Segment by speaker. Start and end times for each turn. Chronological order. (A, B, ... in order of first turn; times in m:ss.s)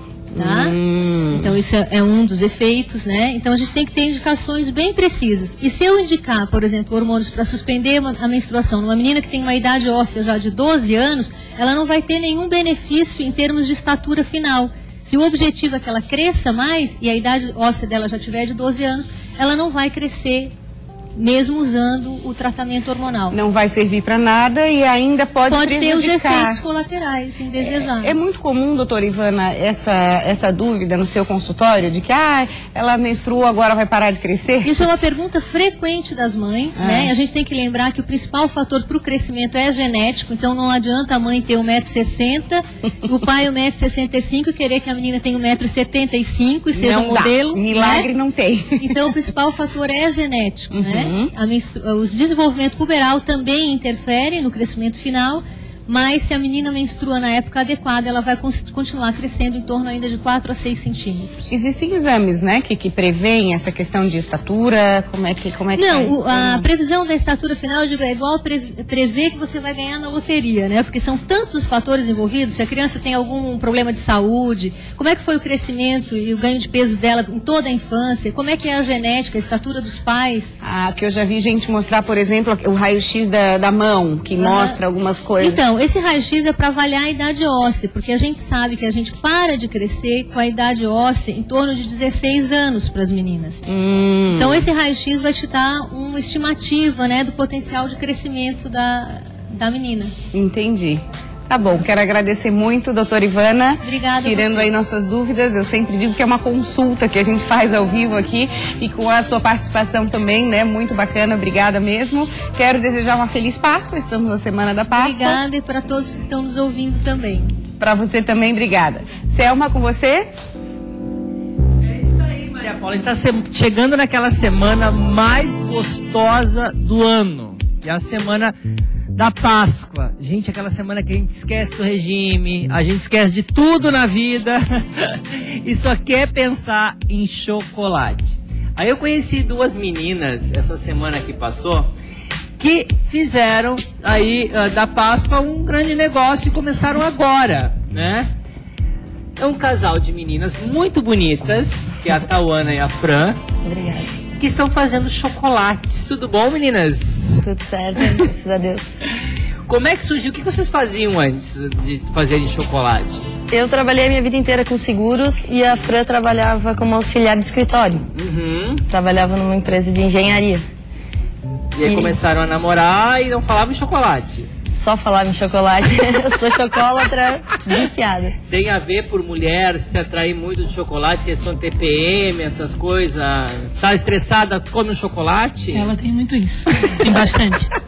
0:00.3-0:01.6 A
0:00.4-0:00.8 B
0:01.3-0:20.5 B
0:21.2-0:23.4 B
0:23.3-0:26.6 A
0:25.5-0:28.1 B
0:27.6-0:34.8 A
0:34.6-0:48.1 B
0:36.8-0:37.1 A
0:46.7-0:49.1 A
0:48.8-1:01.3 B
0:50.7-0:51.3 A
1:01.5-1:06.7 A
1:05.7-1:20.5 B
1:20.6-1:25.6 A
1:24.4-1:24.8 B
1:25.4-1:33.6 B
1:33.7-1:34.7 A
1:34.3-1:40.1 B
1:40.3-1:55.4 A
1:43.8-1:44.7 B
1:55.0-1:57.6 B
1:57.8-2:00.3 A
2:01.8-2:08.5 C
2:09.1-2:21.9 C
2:22.6-2:28.3 C
2:29.4-2:33.4 C
2:33.6-2:34.1 D
2:34.4-2:37.4 C
2:37.4-2:39.0 D
2:39.7-2:43.2 C
2:43.5-2:48.0 D
2:48.1-2:48.8 C
2:48.9-2:50.6 D
2:51.7-2:54.5 C
2:51.8-2:52.2 D
2:54.8-2:58.4 D
2:58.5-3:05.9 C
3:05.7-3:07.7 E